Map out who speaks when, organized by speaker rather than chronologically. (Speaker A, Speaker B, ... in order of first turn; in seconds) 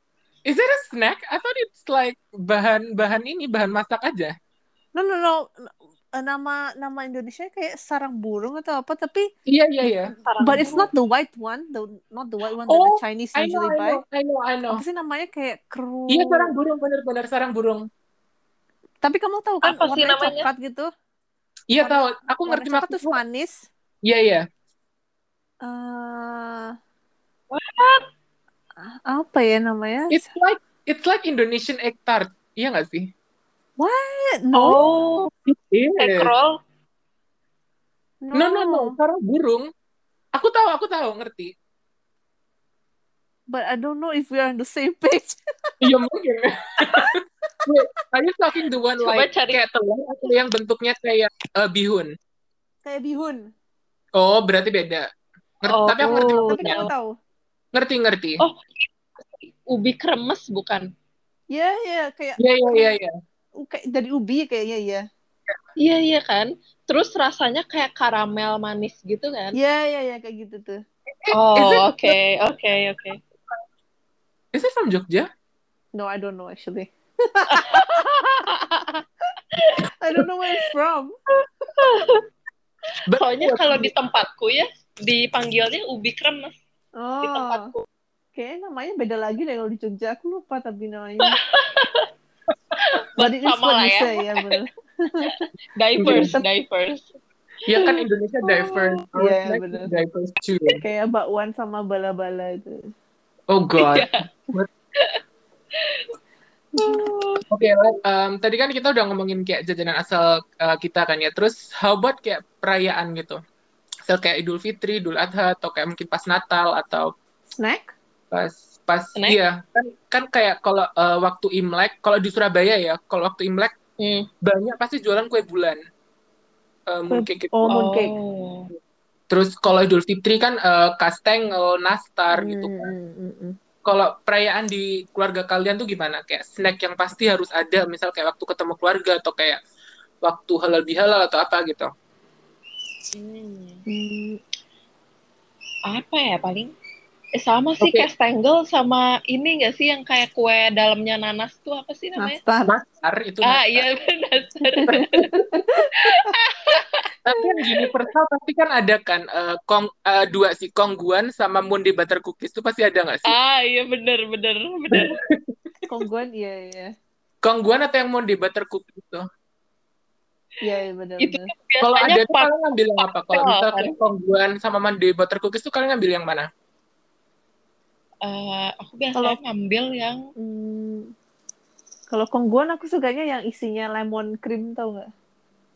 Speaker A: 0.5-4.3, 9.5-10.1, 12.7-14.8, 16.1-17.9, 21.7-23.2, 24.0-24.4, 30.1-33.1, 35.5-36.3, 38.3-39.7, 40.4-41.5, 45.8-52.1, 54.1-55.1, 55.6-56.8, 57.7-58.4, 62.4-63.1, 71.2-72.1, 74.5-75.3, 83.1-83.9, 96.0-96.3, 97.7-100.8, 103.5-104.7, 107.5-113.4, 114.1-117.1, 118.3-123.7, 124.4-125.8, 126.9-127.7, 129.3-132.9, 133.9-139.6, 140.2-141.9, 147.8-148.1, 152.7-153.9, 154.9-155.3, 157.2-163.3, 164.9-165.5, 167.4-169.2, 171.8-176.5
Speaker B: 5.0-9.3, 10.4-14.0, 14.7-16.5, 19.0-20.9, 21.8-23.7, 25.6-26.8, 28.8-30.3, 33.8-34.8, 38.2-39.0, 43.5-45.4, 52.9-53.5, 56.2-57.1, 61.5-62.9, 63.6-65.0, 69.5-70.8, 76.0-78.0, 80.0-81.1, 87.0-87.7, 88.3-91.4, 93.2-95.5, 96.0-96.4, 99.2-99.9, 100.8-102.9, 106.8-107.0, 117.5-117.9, 127.1-128.1, 132.3-133.6, 143.9-144.4, 152.2-152.7, 154.8-156.1, 165.9-166.9, 170.6-171.5, 180.4-181.1, 182.1-185.1
Speaker C: 10.2-10.9, 19.6-20.5, 27.5-28.1, 34.5-35.3, 36.0-36.5, 49.0-49.6, 55.7-56.9, 58.4-60.9, 65.8-69.6, 71.3-73.2, 77.5-78.8, 79.6-79.8, 81.8-82.2, 83.2-86.5, 87.2-87.8, 91.2-92.1, 92.8-94.6, 95.2-97.1, 97.8-99.0, 103.8-104.2, 105.0-105.2, 105.8-106.1, 106.8-107.5, 124.0-124.3, 127.7-128.7, 143.1-143.8, 145.9-146.7, 147.4-152.4, 153.4-155.3, 156.0-157.1, 163.3-165.2, 171.2-173.9, 178.2-180.2